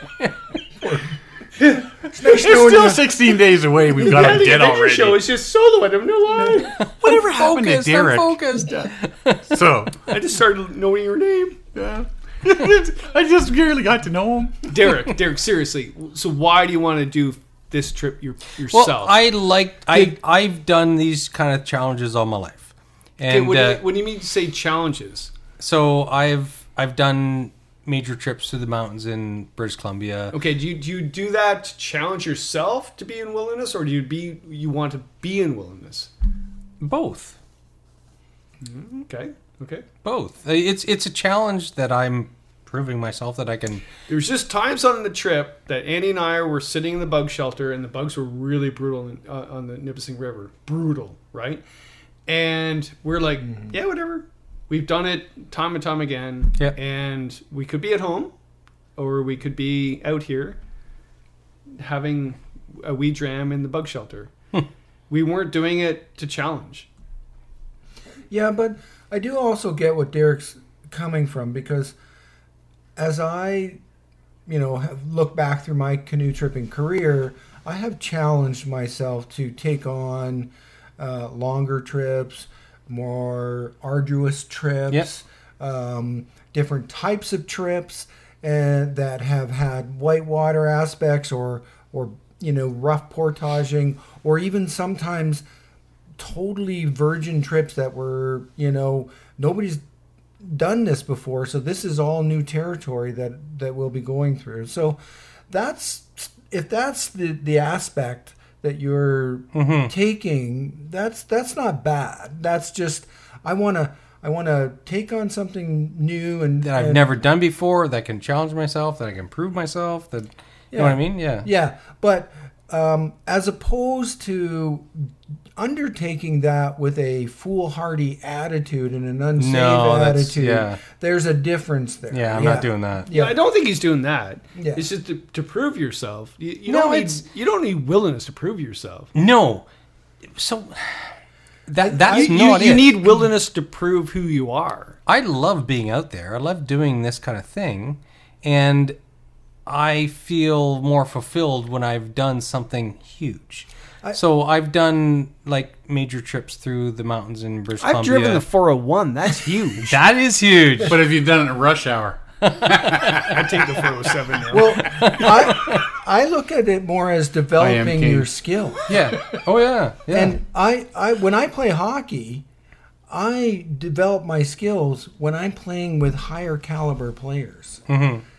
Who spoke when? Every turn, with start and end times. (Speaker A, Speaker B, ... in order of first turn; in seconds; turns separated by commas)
Speaker A: 0.8-3.2, Speaker B: 2.2-5.2, Speaker C: 4.0-6.7, Speaker D: 6.7-9.6, Speaker B: 7.0-8.9, Speaker B: 9.4-10.0, Speaker C: 10.1-11.6, Speaker B: 11.7-14.7, Speaker C: 14.7-19.2, Speaker D: 18.7-23.8, Speaker C: 23.2-25.3, Speaker D: 25.6-30.4, Speaker C: 30.3-36.1, Speaker D: 36.8-37.4, Speaker C: 38.6-39.8, Speaker D: 40.0-43.8, Speaker C: 44.1-51.6, Speaker C: 52.3-58.3, Speaker C: 59.0-60.6, Speaker C: 61.7-64.3, Speaker C: 65.1-66.9, Speaker A: 68.3-71.9, Speaker A: 73.0-73.8, Speaker A: 74.5-95.4, Speaker A: 96.2-99.8, Speaker A: 100.4-105.0, Speaker A: 105.5-117.1, Speaker D: 109.5-109.9, Speaker D: 116.6-121.5, Speaker A: 120.7-133.4, Speaker D: 129.4-130.8, Speaker D: 132.1-133.1, Speaker C: 133.1-139.1, Speaker A: 134.5-134.9, Speaker D: 136.7-137.2, Speaker D: 139.1-139.7, Speaker D: 140.3-141.1, Speaker D: 141.7-143.0, Speaker A: 141.8-142.5, Speaker C: 142.1-145.0, Speaker D: 145.1-149.0, Speaker D: 149.7-158.4, Speaker C: 157.8-160.0, Speaker D: 159.8-160.9, Speaker B: 160.8-163.4, Speaker C: 163.2-164.8, Speaker A: 164.5-168.8, Speaker B: 167.6-168.3, Speaker D: 168.9-170.4, Speaker A: 170.1-172.4, Speaker A: 173.1-177.8, Speaker D: 177.9-178.2